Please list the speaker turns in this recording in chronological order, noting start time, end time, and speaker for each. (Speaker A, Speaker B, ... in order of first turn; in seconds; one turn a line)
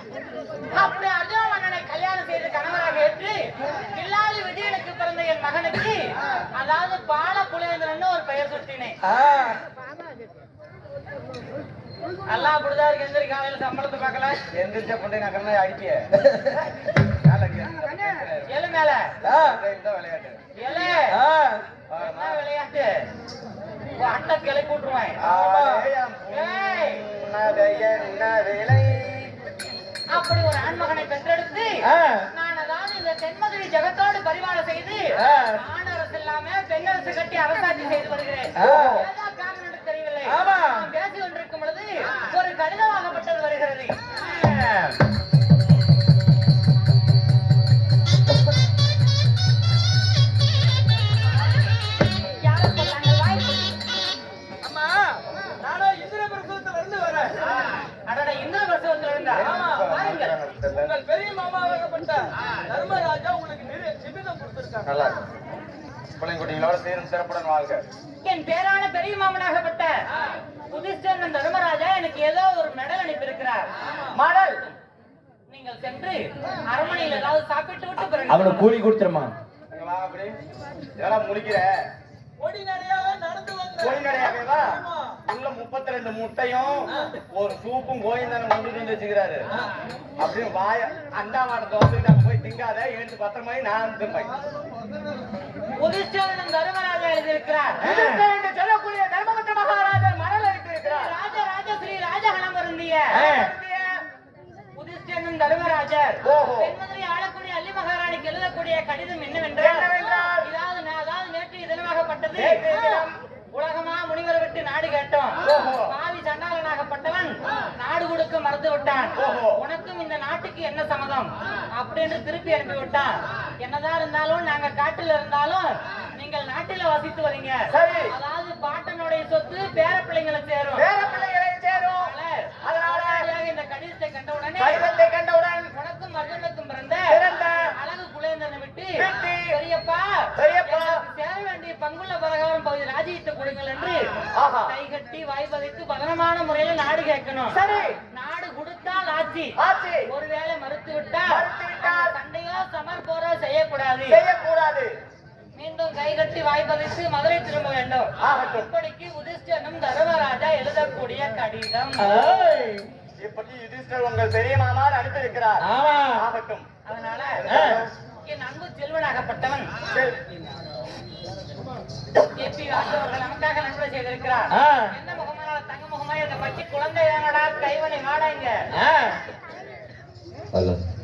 Speaker A: 0.7-9.0
Speaker B: 9.0-9.6
Speaker A: 12.2-14.4
Speaker C: 14.5-16.0
Speaker B: 16.3-16.6
Speaker C: 17.1-18.5
Speaker A: 18.5-19.1
Speaker B: 19.2-19.6
Speaker C: 19.2-20.4
Speaker A: 20.6-21.2
Speaker B: 21.1-21.7
Speaker C: 21.9-22.4
Speaker A: 22.0-23.1
Speaker A: 24.0-25.2
Speaker C: 25.2-29.3
Speaker B: 25.2-25.9
Speaker A: 26.3-27.0
Speaker A: 30.1-44.0
Speaker B: 31.8-32.3
Speaker B: 35.1-35.6
Speaker B: 38.5-39.0
Speaker B: 40.2-40.8
Speaker C: 44.3-44.8
Speaker A: 52.4-53.8
Speaker B: 54.6-57.6
Speaker A: 58.0-60.3
Speaker B: 59.3-60.0
Speaker C: 59.3-61.0
Speaker B: 60.7-64.9
Speaker C: 64.8-65.2
Speaker C: 66.1-67.8
Speaker A: 68.2-69.9
Speaker A: 70.7-73.7
Speaker C: 74.1-74.7
Speaker A: 75.5-78.7
Speaker B: 78.3-79.3
Speaker C: 79.7-80.4
Speaker C: 81.0-81.8
Speaker B: 82.4-85.2
Speaker C: 83.8-89.5
Speaker B: 86.9-87.2
Speaker C: 90.2-94.3
Speaker A: 95.8-97.9
Speaker C: 97.8-101.2
Speaker B: 97.9-98.2
Speaker A: 100.8-103.3
Speaker C: 103.1-104.0
Speaker B: 103.2-103.5
Speaker A: 104.7-130.9
Speaker C: 106.2-106.8
Speaker C: 109.5-110.5
Speaker C: 112.3-113.1
Speaker C: 115.4-116.0
Speaker C: 119.2-119.6
Speaker C: 127.7-128.1
Speaker C: 130.8-133.2
Speaker A: 131.7-134.9
Speaker C: 134.6-135.7
Speaker A: 135.7-137.2
Speaker C: 137.1-137.7
Speaker A: 137.7-144.0
Speaker C: 139.0-139.6
Speaker C: 140.3-141.0
Speaker C: 144.3-144.7
Speaker A: 144.7-149.5
Speaker C: 147.5-148.0
Speaker C: 149.6-150.1
Speaker A: 150.1-154.2
Speaker C: 151.3-152.2
Speaker C: 154.1-154.9
Speaker A: 155.6-162.3
Speaker C: 158.2-158.7
Speaker B: 162.0-162.9
Speaker C: 163.2-166.7
Speaker B: 165.6-166.2
Speaker A: 166.8-167.4
Speaker C: 167.3-167.9
Speaker B: 167.4-167.9
Speaker A: 168.2-169.7
Speaker C: 169.9-170.2
Speaker A: 172.3-178.6
Speaker B: 174.5-174.9
Speaker B: 178.7-179.2
Speaker B: 180.5-180.8